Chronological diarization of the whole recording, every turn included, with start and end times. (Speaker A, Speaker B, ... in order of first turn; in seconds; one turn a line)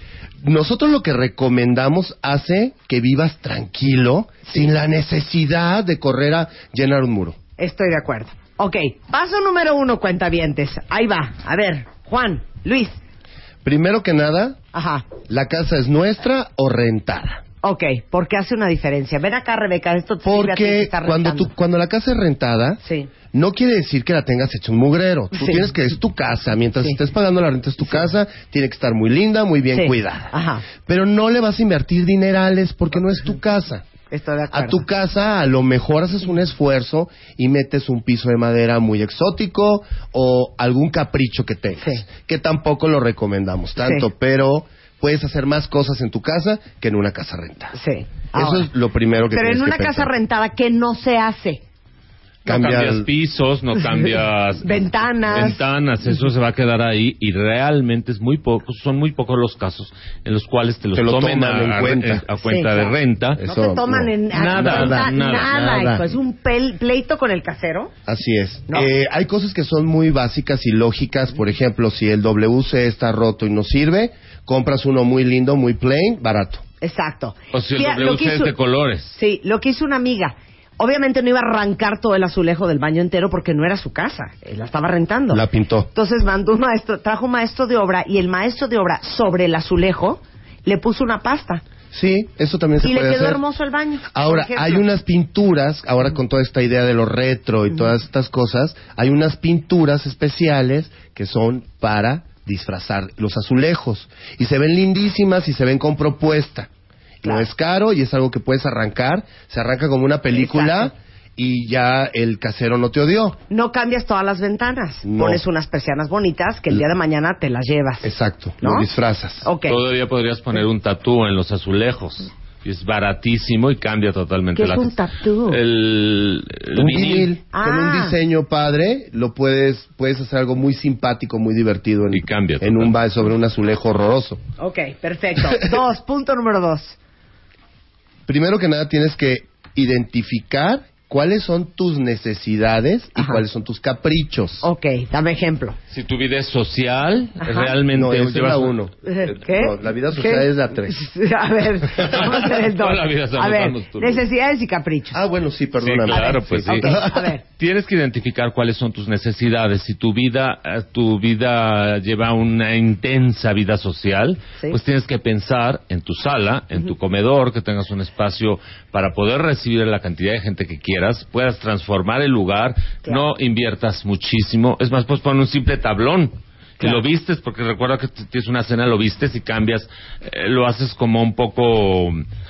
Speaker A: 0.4-7.4
Speaker B: 7.6-13.0
Speaker A: 13.6-14.6
Speaker B: 14.7-15.1
Speaker A: 15.2-17.4
Speaker B: 17.6-21.5
Speaker A: 20.2-22.8
Speaker B: 22.8-23.1
Speaker A: 23.3-33.8
Speaker B: 25.3-25.7
Speaker B: 29.7-30.7
Speaker B: 34.1-34.8
Speaker A: 34.5-47.7
Speaker B: 47.7-48.7
Speaker A: 48.3-50.1
Speaker B: 49.3-51.6
Speaker C: 52.4-63.4
Speaker A: 52.5-53.1
Speaker B: 54.6-55.6
Speaker A: 60.9-62.2
Speaker B: 62.4-67.9
Speaker A: 63.4-66.0
Speaker C: 64.3-66.1
Speaker A: 68.0-76.6
Speaker B: 76.8-78.5
Speaker C: 77.5-79.2
Speaker B: 79.1-91.6
Speaker A: 85.3-85.9
Speaker A: 91.9-93.4
Speaker B: 92.8-94.8
Speaker A: 94.1-106.7
Speaker A: 107.2-113.4
Speaker B: 110.3-110.9
Speaker B: 113.5-118.1
Speaker A: 115.0-115.4
Speaker A: 118.0-119.5
Speaker B: 118.6-118.9
Speaker B: 119.4-119.8
Speaker C: 119.7-127.3
Speaker B: 124.6-125.6
Speaker A: 126.7-134.4
Speaker B: 127.5-128.1
Speaker C: 132.1-132.9
Speaker B: 134.6-136.9
Speaker A: 138.3-144.7
Speaker B: 144.6-145.8
Speaker C: 145.9-148.7
Speaker B: 147.4-147.7
Speaker A: 147.9-151.0
Speaker B: 149.1-155.2
Speaker C: 152.0-154.2
Speaker A: 155.1-157.3
Speaker C: 155.8-157.0
Speaker B: 156.1-157.4
Speaker C: 157.6-182.2